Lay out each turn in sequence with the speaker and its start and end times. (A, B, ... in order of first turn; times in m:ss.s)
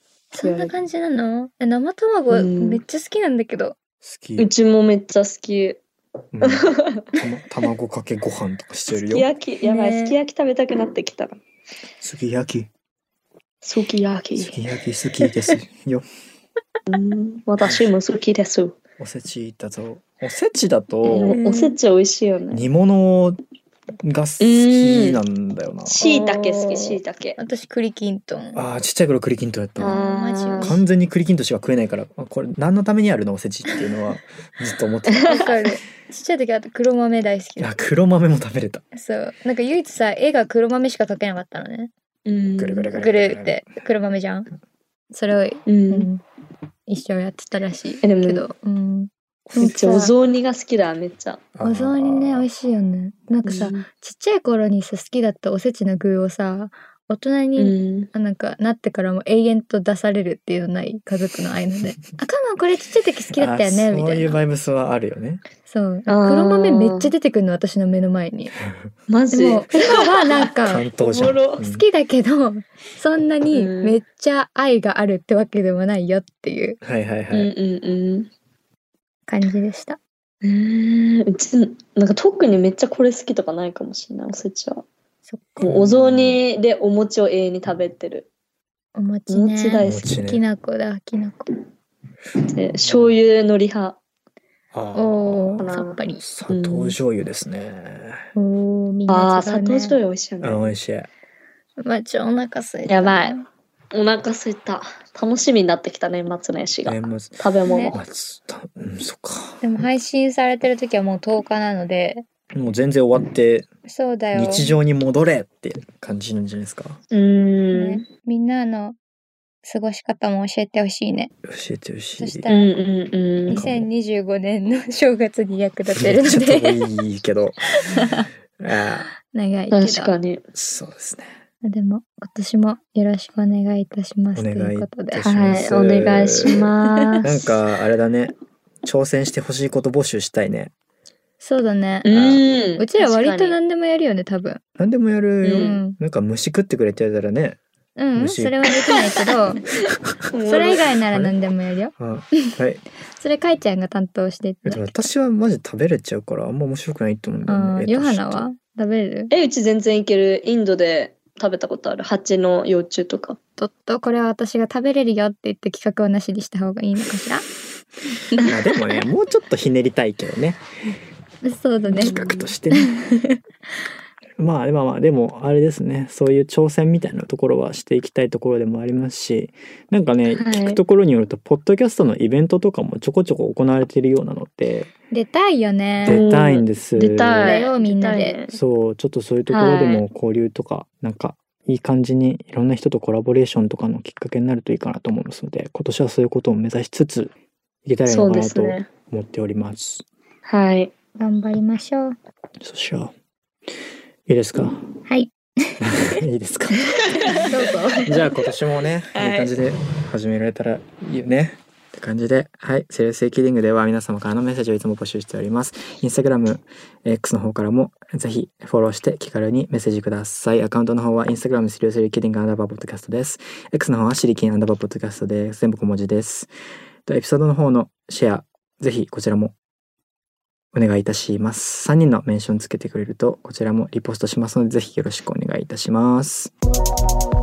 0:00.3-0:03.8 A
0:00.4-0:00.7 B
0:02.3-0:02.8 B
0:04.0-0:04.5 C
0:04.4-0:05.8 B
0:06.3-0:09.3 C
0:06.4-0:07.1 B
0:08.9-0:11.4 B
0:09.6-0:10.2 A
0:12.0-0:12.7 C
0:13.6-0:14.6 B
0:14.4-0:16.0 C
0:16.9-0:18.8 B
0:17.6-0:17.9 C
0:19.0-0:21.4 C
0:21.0-0:22.6 B
0:21.2-0:21.8 A
0:22.5-0:23.4 C
0:24.0-0:26.0 C
0:24.4-0:25.2 B
0:25.9-0:27.4 B
0:25.9-0:28.6 A
0:28.5-0:30.0 C
0:29.8-0:30.8 A
0:29.8-0:30.8 B
0:30.6-0:35.5 C
0:35.1-0:35.5 B
0:35.2-0:37.9 A
0:37.6-0:38.8 C
0:38.9-0:41.9 A
0:42.2-0:42.9 B
0:42.6-0:43.6 C
0:42.9-0:44.5 A
0:45.1-0:46.2 A
0:45.6-0:46.1 B
0:46.9-0:50.1 A
0:48.0-0:48.4 B
0:49.6-0:51.4 B
0:51.5-0:52.5 C
0:51.6-1:04.4 A
0:53.4-0:53.8 B
0:57.6-0:58.1 B
1:03.3-1:05.4 C
1:05.7-1:08.5 A
1:06.1-1:07.1 B
1:08.6-1:08.9 C
1:09.1-1:11.6 B
1:09.3-1:10.8 A
1:10.6-1:11.8 C
1:11.6-1:16.8 A
1:13.5-1:14.0 B
1:16.8-1:17.5 C
1:17.3-1:18.3 B
1:19.3-1:20.0 A
1:20.4-1:24.8 B
1:25.3-1:25.6 A
1:25.6-1:26.4 C
1:25.6-1:28.3 B
1:28.9-1:31.5 A
1:29.3-1:30.1 B
1:29.8-1:30.4 C
1:32.5-1:34.0 B
1:32.8-1:33.1 C
1:34.7-1:35.7 C
1:34.9-1:36.2 A
1:35.6-1:36.0 B
1:36.2-1:38.3 C
1:36.5-1:37.0 B
1:38.3-1:40.0 A
1:39.1-1:40.7 B
1:40.4-1:41.1 C
1:41.8-1:43.4 A
1:42.9-1:43.4 B
1:43.9-1:48.0 B
1:46.8-1:49.6 C
1:47.6-1:48.0 A
1:49.6-1:52.2 A
1:52.5-1:53.7 C
1:53.8-1:54.7 A
1:54.3-1:57.0 C
1:57.1-1:58.0 B
1:57.7-1:59.0 A
1:59.6-2:01.3 A
2:01.4-2:02.5 C
2:02.2-2:02.7 A
2:02.5-2:03.6 B
2:03.5-2:06.8 A
2:03.5-2:03.9 C
2:05.9-2:07.6 C
2:07.9-2:08.2 A
2:08.6-2:09.1 C
2:09.2-2:10.1 A
2:09.7-2:10.4 B
2:10.5-2:11.4 C
2:11.6-2:15.3 A
2:14.3-2:16.7 C
2:15.2-2:17.4 B
2:16.6-2:17.3 A
2:17.2-2:20.7 C
2:21.4-2:22.1 A
2:22.0-2:23.6 B
2:22.1-2:22.4 C
2:22.8-2:24.6 A
2:24.8-2:27.6 C
2:25.4-2:25.8 B
2:25.5-2:26.0 A
2:28.0-2:29.6 A
2:28.2-2:28.7 C
2:29.9-2:30.2 C
2:30.3-2:30.8 B
2:30.4-2:31.9 A
2:31.1-2:31.3 C
2:32.0-2:32.8 C
2:33.1-2:35.1 A
2:34.6-2:38.5 C
2:37.4-2:39.3 A
2:39.3-2:43.4 B
2:43.6-2:47.4 A
2:48.4-2:50.6 C
2:51.4-2:53.4 A
2:51.9-2:52.5 B
2:52.0-2:52.9 C
2:54.4-3:04.9 C
3:00.3-3:00.8 B
3:05.1-3:06.2 A
3:06.0-3:07.6 C
3:06.0-3:08.6 B
3:07.4-3:08.4 A
3:08.5-3:17.3 C
3:09.5-3:10.0 B
3:17.8-3:20.0 C
3:18.1-3:18.9 B
3:20.4-3:20.9 B
3:21.2-3:22.2 A
3:22.6-3:23.1 C
3:24.3-3:24.8 C
3:25.0-3:25.8 A
3:25.8-3:27.4 C
3:27.1-3:27.4 B
3:27.4-3:28.2 A
3:28.0-3:46.5 C
3:29.1-3:29.6 B
3:47.0-3:49.5 C
3:50.7-3:56.5 C